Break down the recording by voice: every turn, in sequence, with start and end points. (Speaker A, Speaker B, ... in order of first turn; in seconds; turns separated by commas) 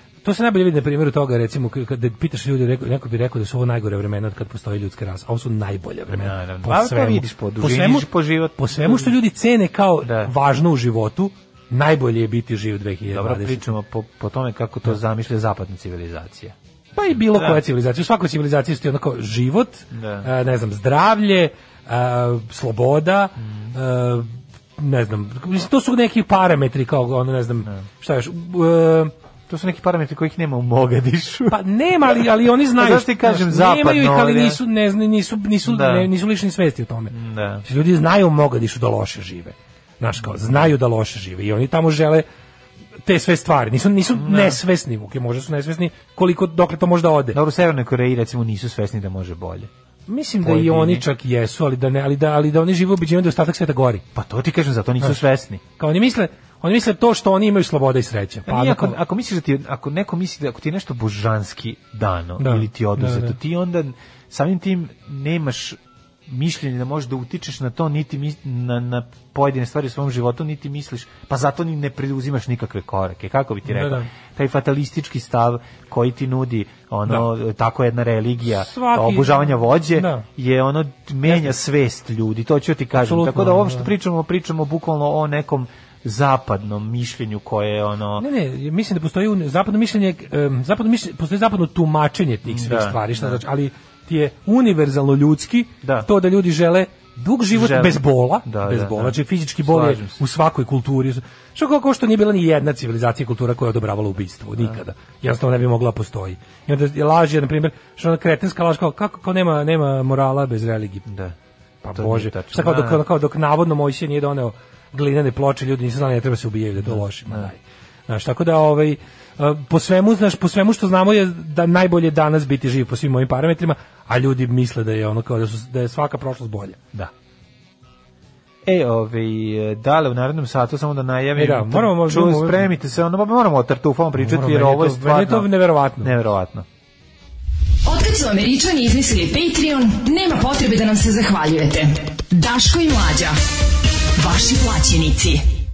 Speaker A: 0.2-13.6, Speaker B: 6.1-9.1, Speaker B: 10.0-10.3, Speaker B: 13.1-16.5, Speaker A: 16.9-29.1, Speaker B: 17.3-17.6, Speaker B: 19.9-20.3, Speaker B: 23.4-23.7, Speaker B: 29.5-31.6, Speaker A: 31.5-37.1, Speaker B: 32.7-34.6, Speaker B: 35.6-36.1, Speaker B: 37.1-37.6, Speaker A: 37.6-42.2, Speaker A: 43.0-47.4, Speaker B: 44.1-44.6, Speaker B: 47.3-49.7, Speaker A: 50.1-54.0, Speaker B: 50.4-51.0, Speaker B: 54.1-55.6, Speaker A: 55.8-59.0, Speaker B: 58.5-88.2, Speaker A: 62.4-63.4, Speaker A: 73.7-74.1, Speaker A: 78.6-80.2, Speaker A: 83.0-83.9, Speaker A: 88.2-111.0, Speaker B: 92.4-93.4, Speaker B: 95.8-96.1, Speaker B: 97.5-100.2, Speaker B: 111.0-111.3, Speaker A: 111.8-126.8, Speaker B: 112.0-113.0, Speaker B: 116.8-117.5, Speaker B: 128.6-136.7, Speaker A: 131.3-132.6, Speaker A: 134.2-136.1, Speaker C: 137.8-143.3, Speaker C: 144.2-145.4